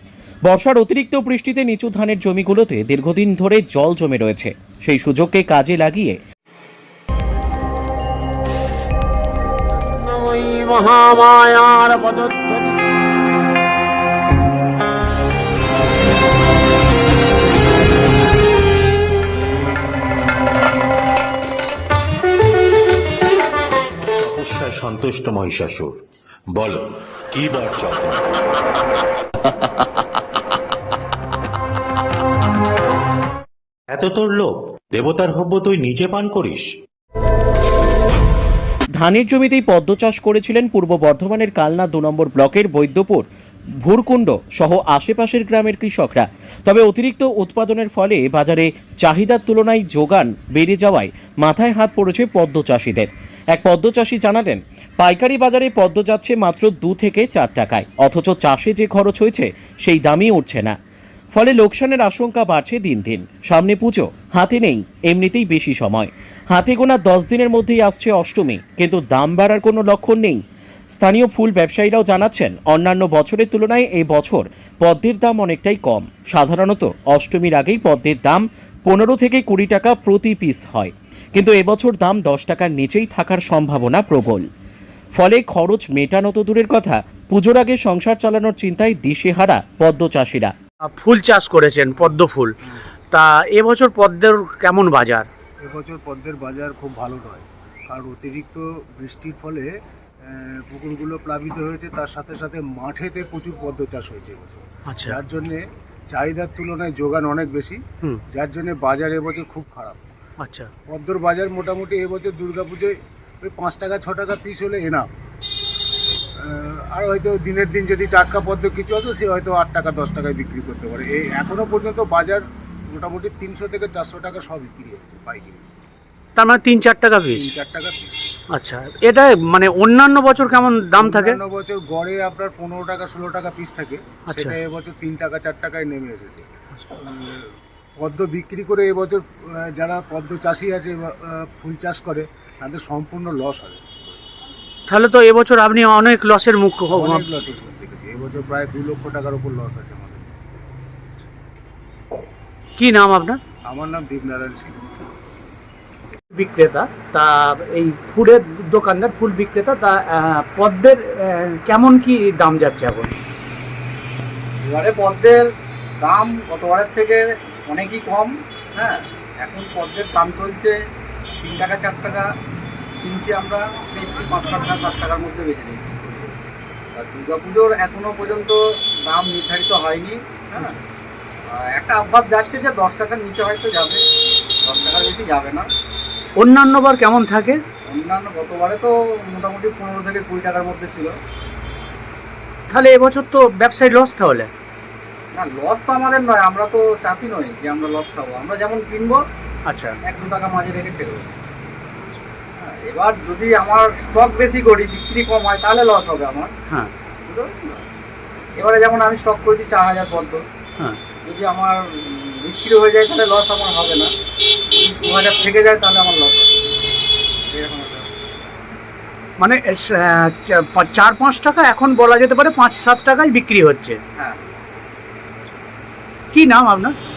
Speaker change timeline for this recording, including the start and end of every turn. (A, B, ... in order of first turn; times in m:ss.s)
0:00.4-0:06.2 A
0:10.0-0:12.7 B
0:23.9-0:26.0 C
0:26.5-0:28.4 C
0:33.9-0:36.7 C
0:39.0-0:43.2 A
0:43.8-1:00.7 A
1:01.3-1:10.4 A
1:11.0-1:24.4 A
1:25.2-1:30.5 A
1:30.8-1:32.5 D
1:33.1-1:35.3 D
1:35.6-1:39.7 E
1:40.2-1:50.0 E
1:44.9-1:45.2 D
1:50.4-1:50.7 D
1:50.9-1:55.1 E
1:56.4-2:05.6 E
2:06.4-2:07.5 D
2:07.3-2:08.3 E
2:08.5-2:11.4 D
2:11.0-2:17.5 E
2:14.3-2:14.6 D
2:18.0-2:24.3 E
2:24.9-2:27.2 D
2:26.9-2:30.3 E
2:32.8-2:33.4 D
2:33.7-2:34.8 E
2:36.3-2:43.1 D
2:44.6-2:45.4 F
2:46.0-2:50.7 F
2:51.4-2:52.2 F
2:53.0-2:56.3 F
2:57.0-3:00.8 F
3:01.5-3:04.0 F
3:04.6-3:05.7 F
3:06.4-3:07.6 D
3:07.9-3:11.1 F
3:12.7-3:14.5 D
3:15.3-3:19.2 F
3:19.7-3:20.0 D
3:20.0-3:21.3 F
3:22.6-3:26.5 F
3:27.2-3:27.8 F
3:28.6-3:30.4 F
3:31.3-3:34.1 F
3:34.7-3:36.6 F
3:37.5-3:38.1 F
3:39.4-3:44.0 D
3:44.2-3:44.5 F
3:46.3-3:46.9 D